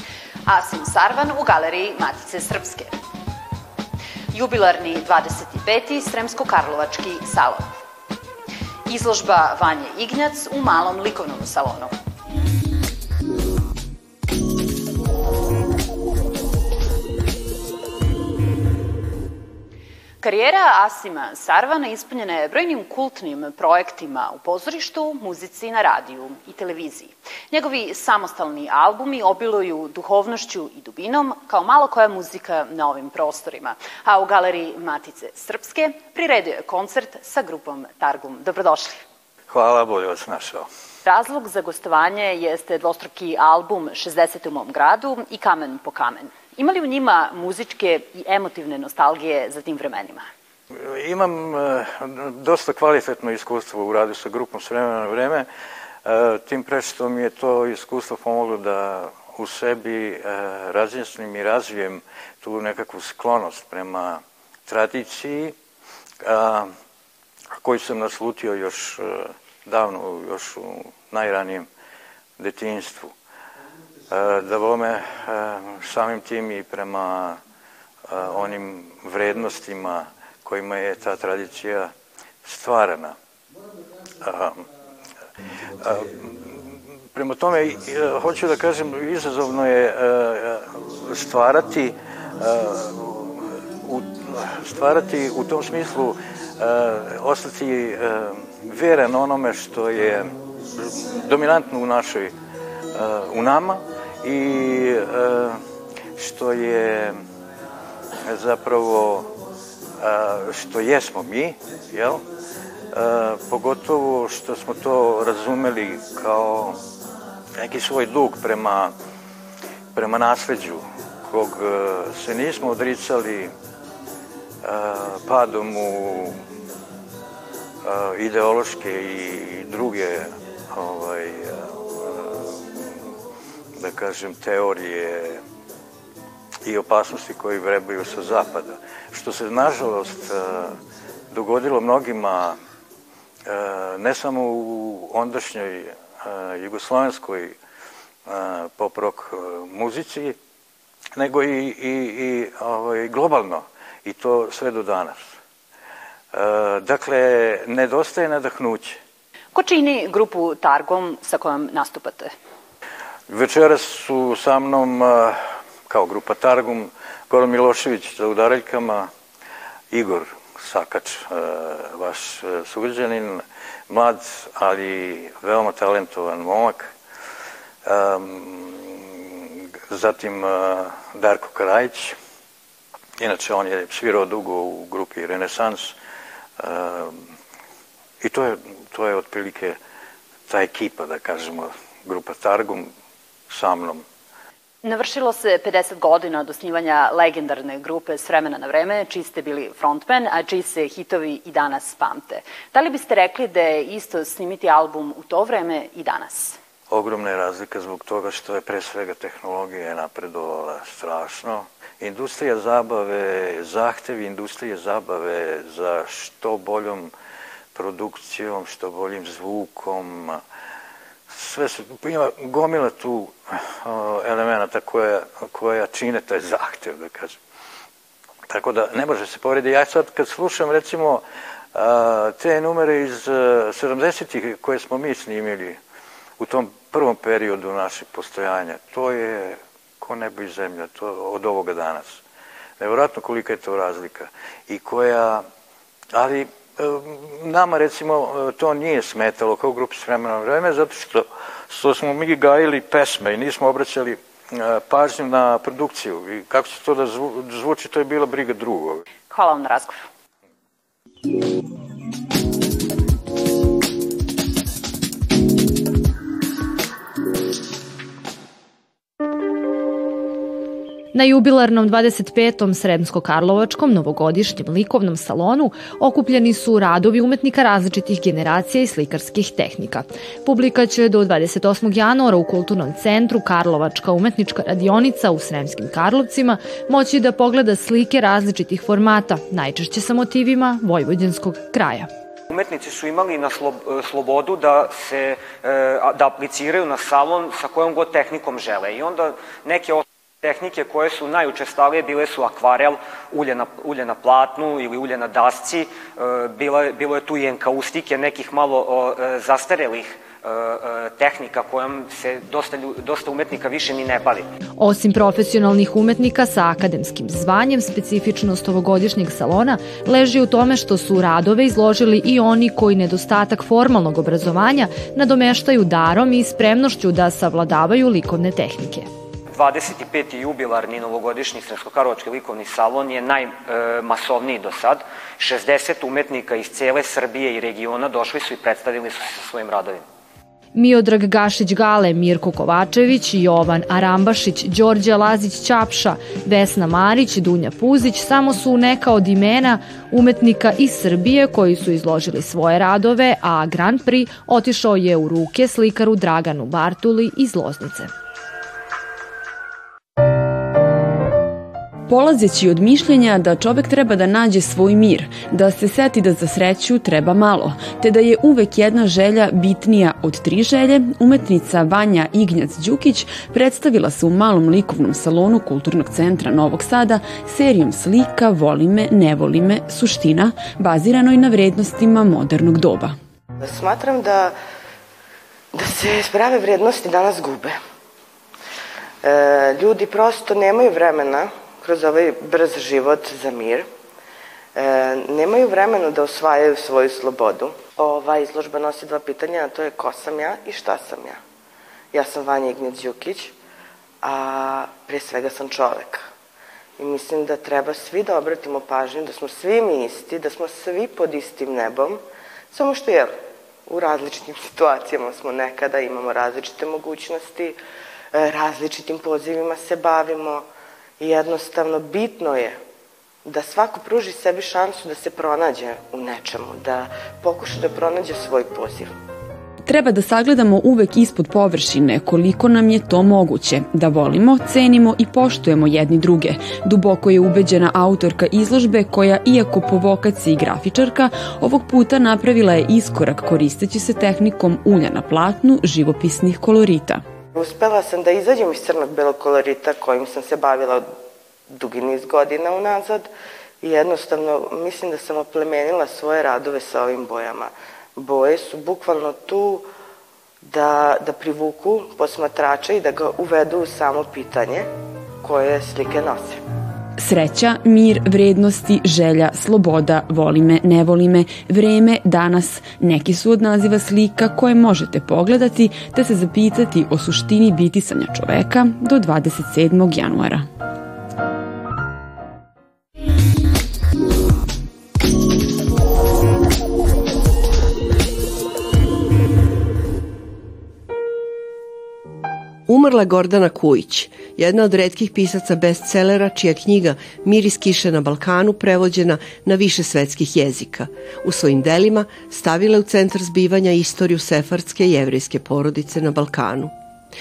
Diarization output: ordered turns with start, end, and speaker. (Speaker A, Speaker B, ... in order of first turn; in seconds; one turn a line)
Speaker A: 0.5-2.9
Speaker A: 4.3-7.8
Speaker A: 8.9-11.9
Speaker A: 20.2-39.0
Speaker B: 39.5-40.7
Speaker A: 41.0-50.2
Speaker B: 50.8-55.5
Speaker B: 56.0-65.5
Speaker B: 66.2-66.7
Speaker B: 67.6-71.7
Speaker B: 72.4-73.1
Speaker B: 74.1-77.4
Speaker B: 78.1-81.9
Speaker B: 82.4-83.2
Speaker B: 84.2-84.6
Speaker B: 85.8-86.5
Speaker B: 87.1-100.3
Speaker B: 100.8-102.3
Speaker B: 102.9-105.5
Speaker B: 106.2-107.2
Speaker B: 108.2-109.3
Speaker B: 110.0-112.2
Speaker B: 112.9-116.8
Speaker B: 117.6-118.9
Speaker B: 119.9-123.5
Speaker B: 124.6-126.4
Speaker B: 127.8-132.8
Speaker B: 133.8-135.4
Speaker B: 136.6-140.7
Speaker B: 141.3-142.6
Speaker B: 143.4-147.6
Speaker B: 148.3-150.3
Speaker B: 151.2-155.2
Speaker B: 156.3-159.0
Speaker A: 159.5-162.3
Speaker B: 163.3-169.1
Speaker B: 169.9-176.9
Speaker B: 177.8-179.2
Speaker B: 179.9-182.1
Speaker B: 183.2-185.9
Speaker B: 186.6-187.1
Speaker B: 188.2-189.8
Speaker B: 190.5-192.9
Speaker B: 193.5-194.0
Speaker A: 194.8-206.6
Speaker B: 206.9-217.1
Speaker B: 217.7-220.4
Speaker B: 221.3-227.4
Speaker B: 228.5-235.8
Speaker B: 236.4-242.2
Speaker B: 242.8-245.4
Speaker B: 246.1-259.1
Speaker A: 259.3-260.0
Speaker C: 271.1-292.1
Speaker D: 292.5-314.4
Speaker C: 314.8-329.1
Speaker D: 329.5-340.0
Speaker C: 340.7-358.1
Speaker E: 362.1-383.1
Speaker F: 383.6-384.5
Speaker F: 385.7-387.8
Speaker F: 389.2-393.9
Speaker F: 394.7-401.4
Speaker F: 402.1-403.5
Speaker F: 404.2-406.2
Speaker F: 407.0-413.3
Speaker F: 413.9-417.8
Speaker F: 418.3-420.6
Speaker F: 421.2-422.8
Speaker F: 423.4-429.1
Speaker E: 429.9-447.2
Speaker F: 447.5-451.1
Speaker F: 451.7-453.3
Speaker F: 453.8-459.9
Speaker F: 460.6-464.9
Speaker F: 465.4-466.6
Speaker E: 467.2-480.6
Speaker G: 492.9-506.9